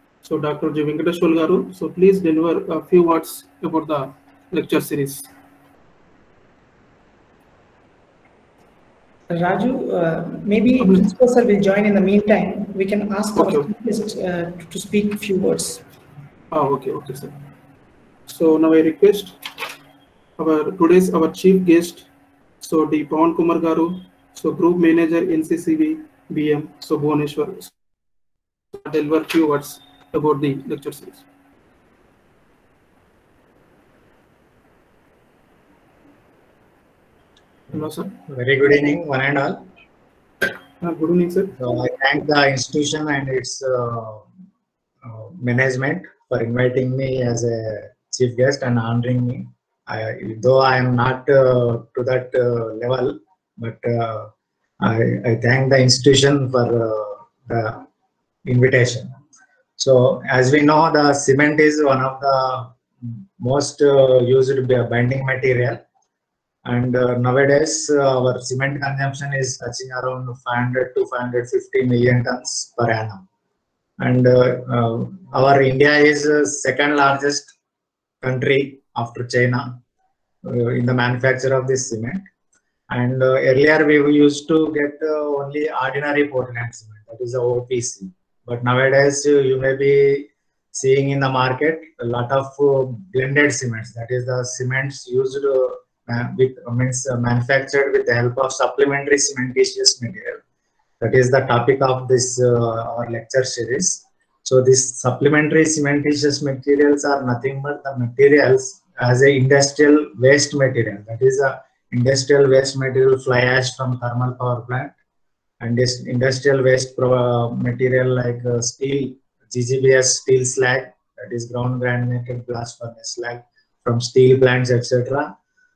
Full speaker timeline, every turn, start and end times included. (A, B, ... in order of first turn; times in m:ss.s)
0:00.2-0:05.3 A
0:09.3-0:15.8 B
0:10.8-0:11.1 A
0:13.4-0:13.7 A
0:16.5-0:17.3 A
0:18.3-0:19.4 A
0:20.4-0:22.1 A
0:22.6-0:27.7 A
0:28.7-0:31.2 A
0:37.7-0:38.2 A
0:38.3-0:39.7 C
0:40.8-0:41.5 A
0:41.6-0:44.2 C
0:45.0-0:57.8 C
0:58.4-0:59.1 C
0:59.8-1:05.8 C
1:06.6-1:13.2 C
1:14.0-1:17.5 C
1:18.2-1:19.8 C
1:20.4-1:22.2 C
1:22.9-1:40.4 C
1:41.0-1:54.9 C
1:55.6-2:05.3 C